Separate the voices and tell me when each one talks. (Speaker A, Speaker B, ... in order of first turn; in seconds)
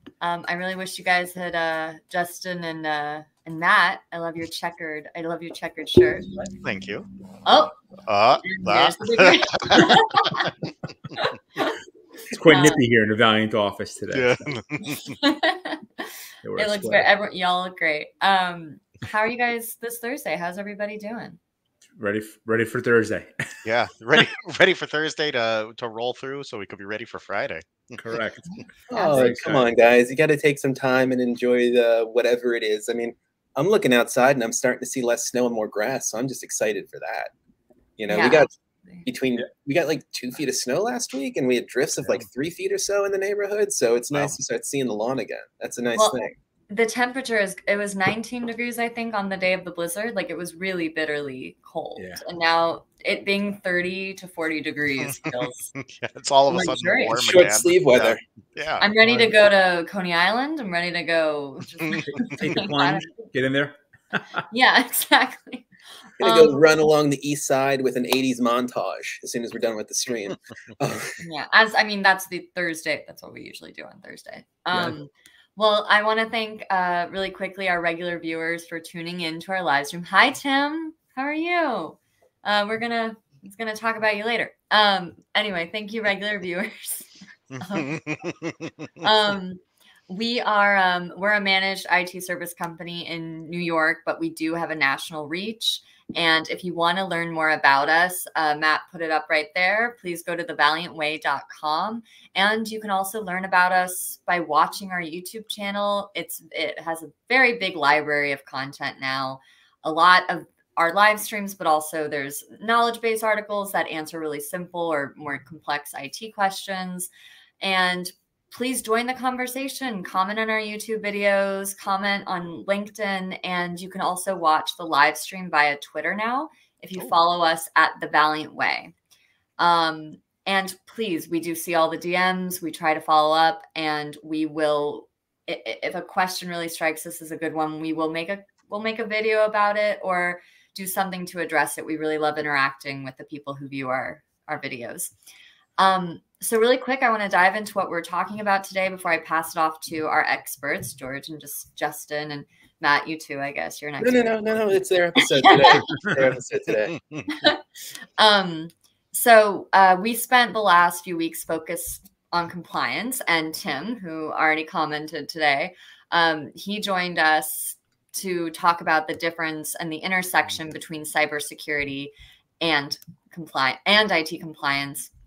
Speaker A: 0.2-6.5, 7.4-7.7, 8.4-10.5, 11.2-11.7, 12.5-12.8, 14.8-21.4, 28.5-29.2, 38.1-39.0, 46.0-55.7, 56.5-57.2, 58.8-63.3, 64.5-65.7, 66.2-66.6, 71.2-88.0, 89.0-128.9, 129.6-145.1, 145.8-154.4, 155.4-155.9, 157.3-157.6, 158.2-175.1
Speaker B: 6.6-7.0, 8.1-10.5, 14.1-15.1, 23.6-28.0, 55.0-59.2, 87.5-88.7
Speaker C: 12.3-14.5, 16.4-17.1, 22.0-23.4, 28.0-28.5, 29.1-29.7, 52.0-52.2, 62.0-64.4
Speaker D: 28.9-37.3, 38.0-38.5, 39.0-46.4, 57.1-58.2, 66.2-71.2, 154.0-157.0